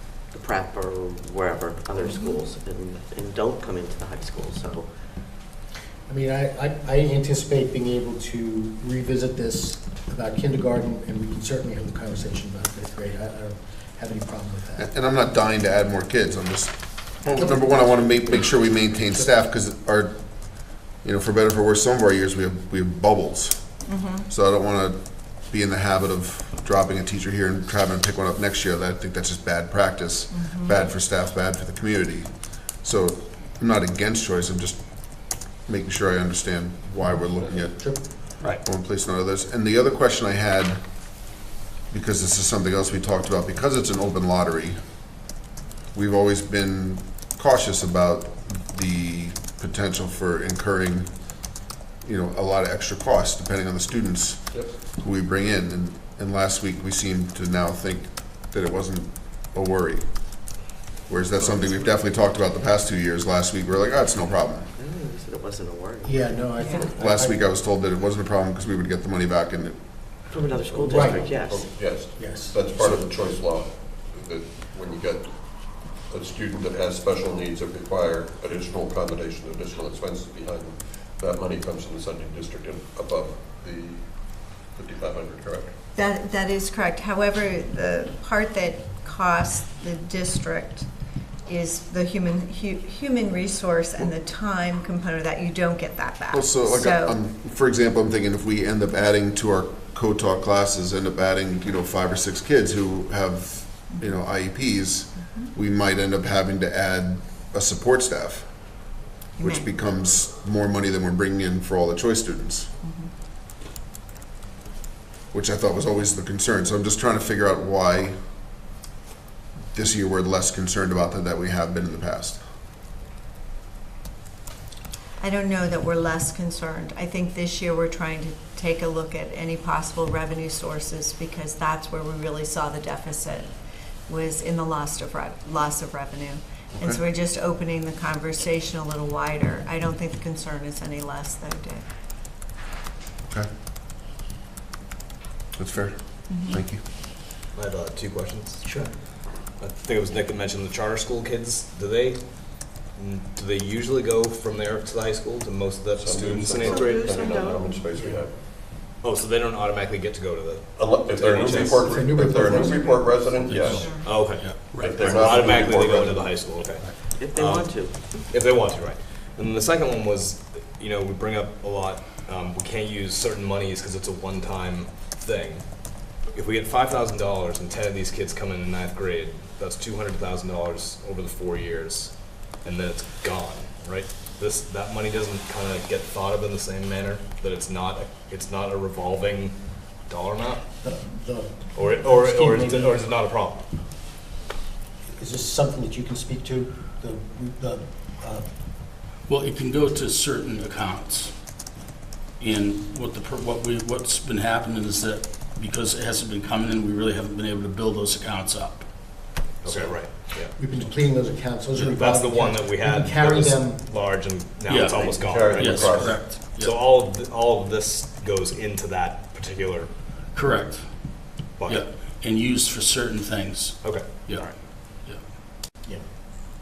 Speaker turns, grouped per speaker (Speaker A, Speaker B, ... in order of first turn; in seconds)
Speaker A: 0.3-4.9, 64.8-66.3, 70.3-71.7, 156.6-157.8, 167.2-168.0
Speaker B: 2.1-2.4, 23.9-24.3, 30.3-30.9, 66.6-66.9, 86.0-90.9, 91.5-97.2, 109.4-109.7, 112.8-113.1, 125.2-133.5, 134.1-141.8, 146.3-146.6
Speaker C: 6.1-14.9, 37.0-38.0, 66.0-67.4, 70.9-71.4, 72.0-72.6, 148.6-148.9, 157.9-158.2, 161.4-163.1, 190.8-193.0, 195.2-198.4, 210.6-213.8
Speaker D: 14.8-37.9, 38.5-40.8, 41.9-44.8, 45.9-51.1, 52.0-60.0, 61.1-64.7, 67.0-69.8, 96.3-108.5, 109.4-112.7, 115.3-118.2, 119.7-122.4, 136.7-137.0, 145.6-146.8
Speaker E: 70.6-85.7, 156.0-158.3, 160.8-164.2, 164.7-166.3, 214.9-216.3
Speaker F: 147.6-148.6, 149.6-152.2, 153.0-157.2, 159.0-162.1, 164.0-175.6, 176.3-182.1, 182.6-189.6, 190.1-190.6, 191.8-193.6, 209.6-210.5, 211.9-219.9, 221.6-221.8, 223.8-224.5
Speaker G: 163.4-165.4, 199.2-201.7, 202.4-209.2, 211.8-212.0, 214.7-216.8, 220.3-224.5